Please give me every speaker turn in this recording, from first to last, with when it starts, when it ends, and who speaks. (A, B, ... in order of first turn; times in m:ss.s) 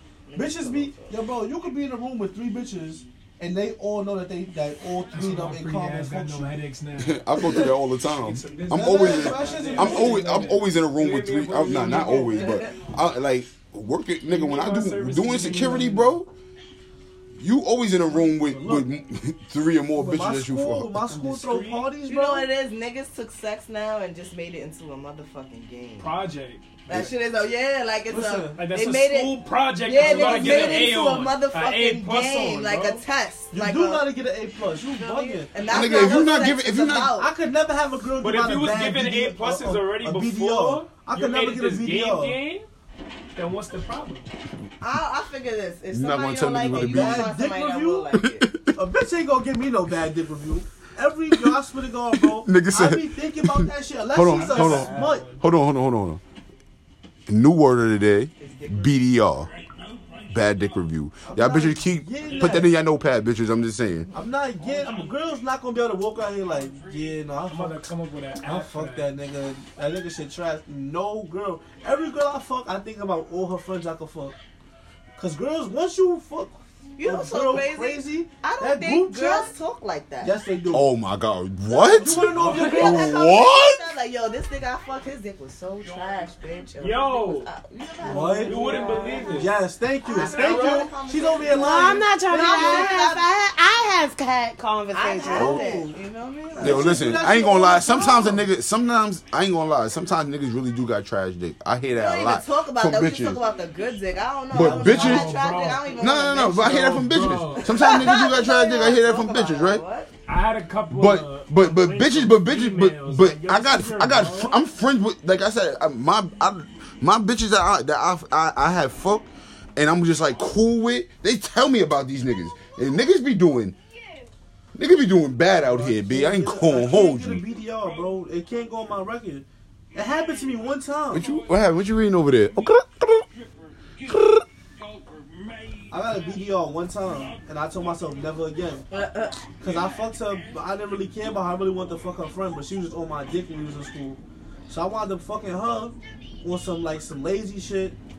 0:00.3-0:01.2 A
0:00.3-0:06.6 B
0:05.1-0:12.7 C
0:07.0-0:16.3 D
0:08.7-0:10.6 B
0:12.1-0:12.8 A
0:14.2-0:16.2 C
0:17.4-0:21.0 D
0:18.2-0:18.9 B
0:19.9-0:22.5 B
0:21.1-0:21.9 C
0:22.0-0:26.1 A
0:26.0-0:26.6 C
0:26.8-0:34.1 A
0:28.1-0:28.6 B
0:28.6-0:33.0 C
0:30.0-0:30.9 B
0:33.5-0:36.2 B
0:34.8-0:37.3 A
0:35.7-0:37.1 D
0:37.0-0:42.4 B
0:38.2-0:42.6 C
0:43.3-0:44.3 C
0:44.8-0:48.5 A
0:45.9-0:47.3 D
0:46.7-0:48.1 B
0:48.1-0:48.7 D
0:48.7-0:55.4 B
0:52.2-0:56.2 D
0:54.3-0:55.4 C
0:57.3-0:59.5 D
0:58.4-0:58.9 A
1:00.3-1:04.1 D
1:01.2-1:02.7 B
1:04.1-1:07.8 B
1:04.6-1:05.1 A
1:07.5-1:09.1 C
1:08.4-1:14.3 B
1:15.2-1:19.5 B
1:17.0-1:20.3 A
1:20.2-1:20.9 B
1:20.7-1:23.9 D
1:21.7-1:29.5 A
1:22.0-1:23.2 B
1:22.4-1:22.7 C
1:26.8-1:27.5 C
1:28.0-1:33.0 B
1:28.1-1:29.5 C
1:30.0-1:33.2 A
1:30.1-1:30.9 C
1:31.5-1:35.6 E
1:34.9-1:37.3 A
1:35.2-1:36.0 B
1:35.3-1:35.6 D
1:36.5-1:38.4 B
1:36.6-1:43.4 D
1:41.9-1:50.1 A
1:44.5-1:45.4 D
1:44.5-1:48.0 C
1:46.0-1:49.8 D
1:50.3-1:54.6 C
1:50.9-2:03.8 D
2:04.7-2:07.4 D
2:05.5-2:11.3 B
2:11.1-2:13.3 D
2:14.0-2:14.4 D
2:15.9-2:18.8 B
2:18.9-2:19.5 A
2:19.6-2:28.0 B